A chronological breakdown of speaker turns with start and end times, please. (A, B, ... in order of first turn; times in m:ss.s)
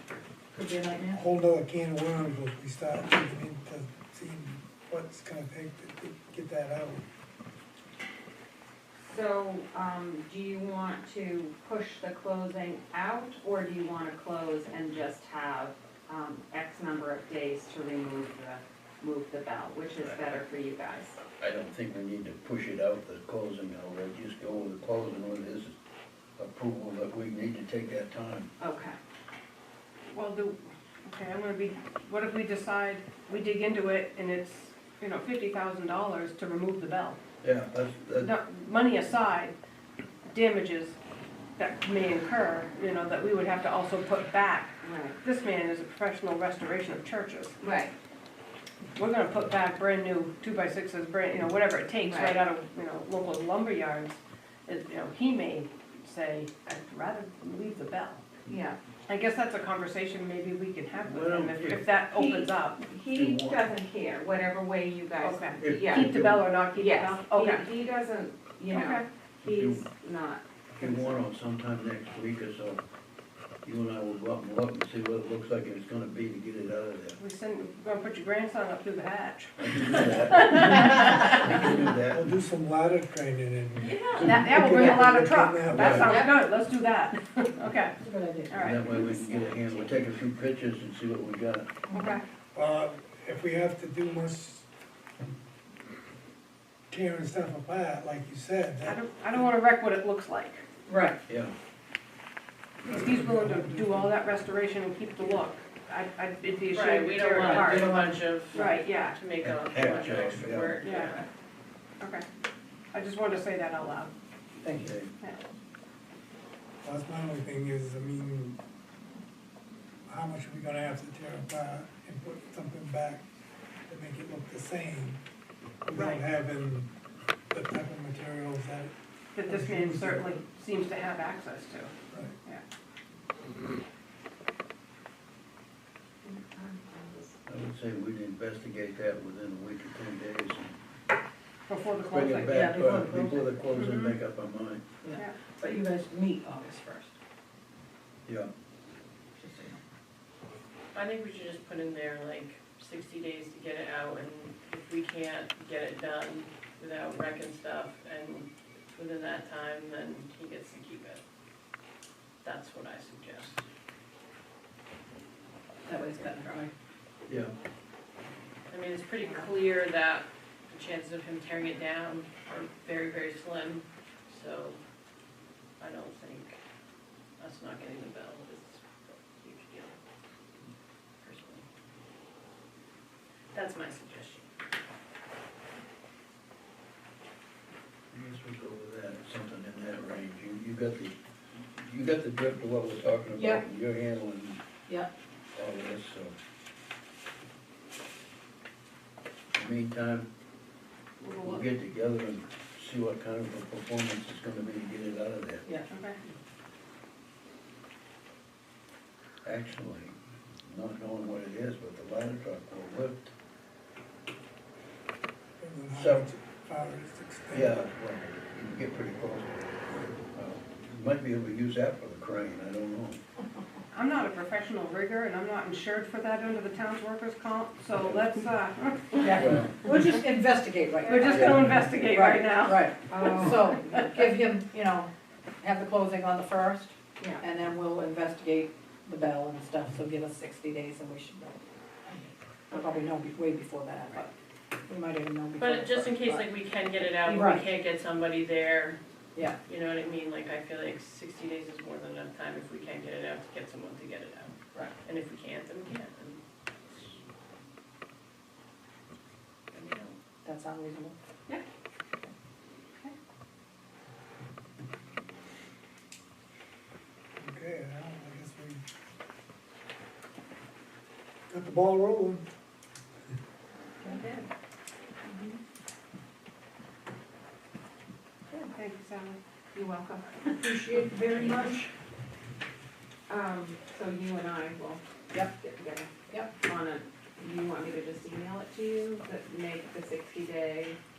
0:00.5-0:01.2 A
0:01.0-0:07.0 B
0:09.0-0:21.2 C
0:21.4-0:25.8 D
0:26.4-0:28.5 D
0:28.6-0:29.0 C
0:30.1-0:37.2 E
0:37.4-0:38.3 D
0:38.2-0:39.6 E
0:40.2-0:41.0 E
0:41.6-0:47.6 E
0:44.8-0:45.2 C
0:47.6-0:47.9 C
0:48.9-0:58.2 E
0:52.1-0:52.4 C
0:58.5-0:58.8 C
0:59.1-1:02.8 E
1:01.0-1:01.8 D
1:02.1-1:11.2 C
1:03.0-1:03.7 D
1:05.2-1:07.6 E
1:05.6-1:06.5 D
1:08.7-1:09.0 E
1:09.4-1:09.9 D
1:10.8-1:12.8 D
1:13.6-1:17.2 D
1:17.2-1:21.4 E
1:19.6-1:22.3 D
1:22.1-1:26.2 B
1:23.8-1:24.3 C
1:24.2-1:28.0 E
1:24.7-1:25.2 A
1:25.7-1:26.2 D
1:28.0-1:29.4 A
1:28.5-1:28.8 E
1:28.6-1:31.7 D
1:31.9-1:32.2 A
1:31.9-1:32.2 E
1:32.5-1:34.7 B
1:36.9-1:39.5 B
1:38.8-1:40.6 E
1:40.9-1:41.2 A
1:41.3-1:41.5 D
1:42.8-1:47.9 E
1:42.8-1:44.1 B
1:46.7-1:51.2 F
1:47.4-1:48.8 A
1:48.6-1:49.2 E
1:49.4-1:50.8 D
1:50.8-1:51.2 E
1:52.0-1:52.3 E
1:52.9-1:54.1 E
1:54.6-1:54.9 A
1:54.8-1:55.1 D
1:56.8-1:58.6 B
2:00.1-2:03.2 B
2:03.9-2:05.2 B
2:05.8-2:06.9 B
2:05.9-2:06.2 E
2:07.5-2:08.9 B
2:09.3-2:11.9 E
2:09.4-2:10.4 B
2:12.1-2:12.4 B
2:16.2-2:17.4 C
2:17.5-2:20.8 D
2:21.7-2:22.5 E
2:22.0-2:24.8 D
2:22.5-2:23.8 A
2:23.8-2:24.1 E
2:25.0-2:27.1 A
2:29.4-2:29.8 A
2:30.9-2:41.2 F
2:42.4-2:43.6 F
2:45.8-2:46.7 A
2:47.3-2:47.5 D
2:48.7-2:54.8 F
2:55.8-2:56.6 F
2:57.4-3:00.0 F
3:01.2-3:01.6 F
3:03.5-3:04.4 F
3:08.1-3:14.6 D
3:13.3-3:13.6 A
3:15.5-3:16.3 D
3:19.5-3:20.3 D
3:21.2-3:21.6 E
3:21.4-3:25.7 D
3:25.9-3:26.2 E
3:29.4-3:33.3 D
3:35.6-3:37.8 B
3:35.9-3:36.3 D
3:37.5-3:43.2 D
3:43.9-3:49.2 E
3:48.0-3:48.2 D
3:49.2-4:04.3 A
3:49.3-3:49.8 D
3:51.0-3:51.4 C
3:51.1-3:54.1 E
3:51.3-3:51.8 D
3:53.0-3:54.0 C
4:04.8-4:06.5 A
4:05.6-4:09.0 F
4:07.2-4:07.7 A
4:09.7-4:17.2 F
4:14.7-4:15.0 A
4:19.7-4:20.2 F
4:20.4-4:21.2 A
4:27.4-4:28.8 B
4:31.5-4:32.5 B
4:34.0-4:34.4 C
4:35.3-4:35.5 C
4:38.5-4:39.4 E
4:39.7-4:40.7 C
4:40.5-4:41.9 A
4:43.3-4:45.0 C
4:45.6-4:51.0 C
4:46.3-4:46.5 A